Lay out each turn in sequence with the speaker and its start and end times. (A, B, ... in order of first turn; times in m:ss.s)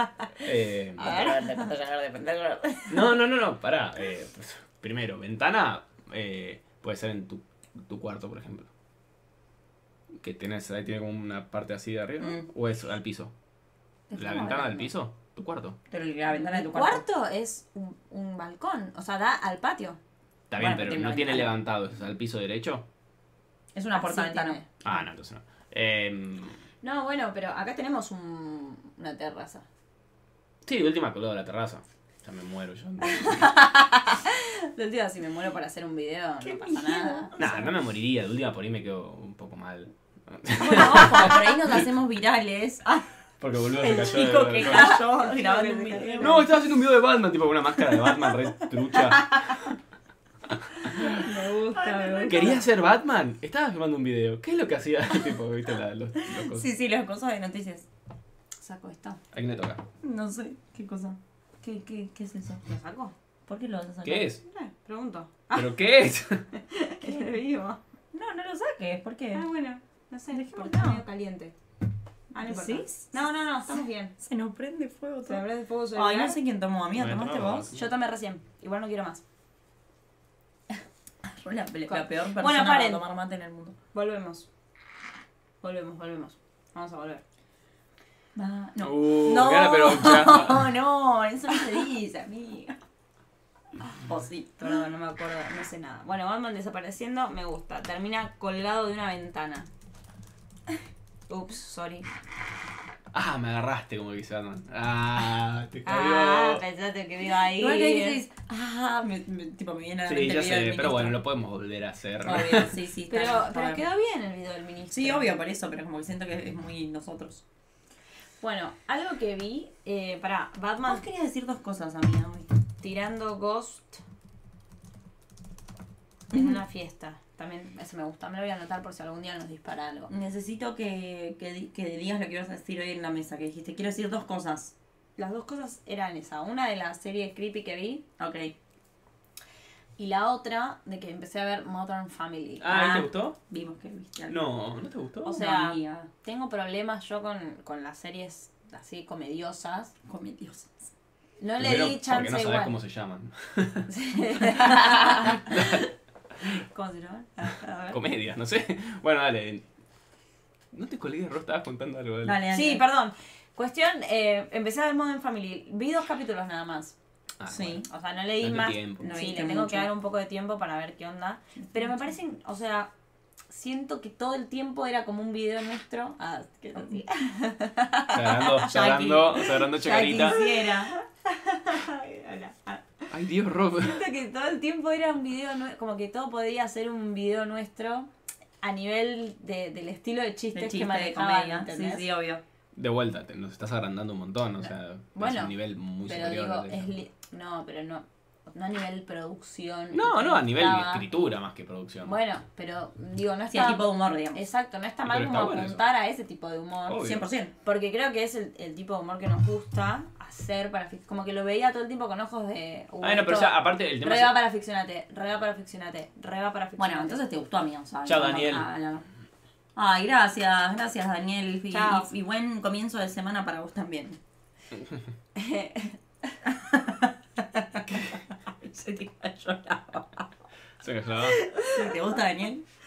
0:00.4-0:01.3 A
0:01.0-0:01.7 B
0:01.0-0:02.7 C
0:02.8-0:03.1 B
0:02.9-0:08.7 A
0:10.2-0:13.3 A
0:12.2-0:12.5 C
0:14.1-0:14.9 B
0:14.2-0:15.8 A
0:15.9-0:17.0 C
0:16.3-0:20.0 B
0:20.5-0:22.8 A
0:20.6-0:21.6 C
0:23.7-0:24.6 C
0:23.9-0:24.7 B
0:24.8-0:26.6 A
0:26.8-0:29.7 B
0:30.6-0:33.5 A
0:33.2-0:37.4 B
0:36.4-0:37.7 C
0:37.4-0:41.8 A
0:40.6-0:43.0 C
0:43.4-0:45.0 A
0:43.8-0:46.5 C
0:43.8-0:46.4 B
0:46.2-0:49.8 A
0:50.9-0:52.6 B
0:50.9-0:52.7 C
0:52.3-0:56.7 A
0:56.2-0:57.9 C
0:58.6-0:59.2 B
0:59.3-0:59.8 A
1:00.0-1:02.6 C
1:02.6-1:03.1 B
1:03.5-1:04.3 C
1:04.0-1:04.4 A
1:04.4-1:05.7 B
1:05.5-1:06.5 A
1:06.7-1:07.8 B
1:07.0-1:07.3 C
1:08.1-1:09.5 C
1:09.3-1:11.6 B
1:10.3-1:11.0 C
1:12.3-1:14.1 B
1:12.4-1:13.2 C
1:13.7-1:17.7 C
1:15.3-1:16.4 B
1:16.9-1:17.8 A
1:17.7-1:19.2 B
1:21.2-1:23.8 C
1:21.9-1:23.0 B
1:23.9-1:24.5 B
1:25.6-1:27.2 B
1:28.4-1:32.8 C
1:28.8-1:30.7 A
1:34.1-1:39.7 B
1:34.1-1:34.4 C
1:41.3-1:42.1 B
1:43.1-1:46.6 A
1:45.8-1:48.2 B
1:47.6-1:51.2 C
1:50.1-1:52.8 A
1:52.2-1:53.8 C
1:53.1-1:55.4 B
1:54.9-1:57.4 C
1:58.4-2:01.0 B
2:00.8-2:02.5 C
2:02.8-2:04.0 B
2:06.3-2:10.1 B
2:10.1-2:14.7 C
2:15.2-2:18.0 B
2:18.2-2:18.5 C
2:20.0-2:23.0 B
2:22.6-2:23.4 A
2:22.7-2:24.4 C
2:24.3-2:25.5 A
2:25.2-2:29.9 B
2:25.3-2:26.1 C
2:30.1-2:30.8 C
2:31.4-2:32.8 B
2:31.6-2:33.9 A
2:33.9-2:35.8 B
2:34.6-2:35.1 C
2:35.5-2:35.8 A
2:36.4-2:38.0 B
2:37.9-2:39.6 A
2:40.7-2:42.4 A
2:42.2-2:42.8 C
2:42.5-2:47.0 B
2:47.4-2:47.8 A
2:47.5-2:47.9 C
2:47.9-2:52.9 B
2:48.4-2:49.1 A
2:49.0-2:49.9 C
2:53.5-3:02.8 B
2:58.1-3:00.4 A
2:58.7-3:00.9 C
3:03.1-3:04.0 A
3:03.7-3:08.1 B
3:08.6-3:12.1 B
3:10.5-3:12.4 C
3:12.8-3:16.9 A
3:14.6-3:15.5 B
3:16.0-3:21.1 B
3:19.9-3:22.2 A
3:22.0-3:27.1 B
3:23.5-3:24.4 C
3:25.0-3:25.8 A
3:26.9-3:27.3 A
3:27.0-3:27.5 C
3:27.6-3:37.2 B
3:33.0-3:34.4 A
3:36.8-3:39.1 C
3:38.0-3:38.7 A
3:39.8-3:44.2 C
3:41.7-3:42.1 B
3:45.4-3:46.0 B
3:46.4-3:48.0 C
3:48.6-3:50.1 C
3:50.8-3:51.5 A
3:51.5-3:51.9 B
3:51.6-3:52.6 C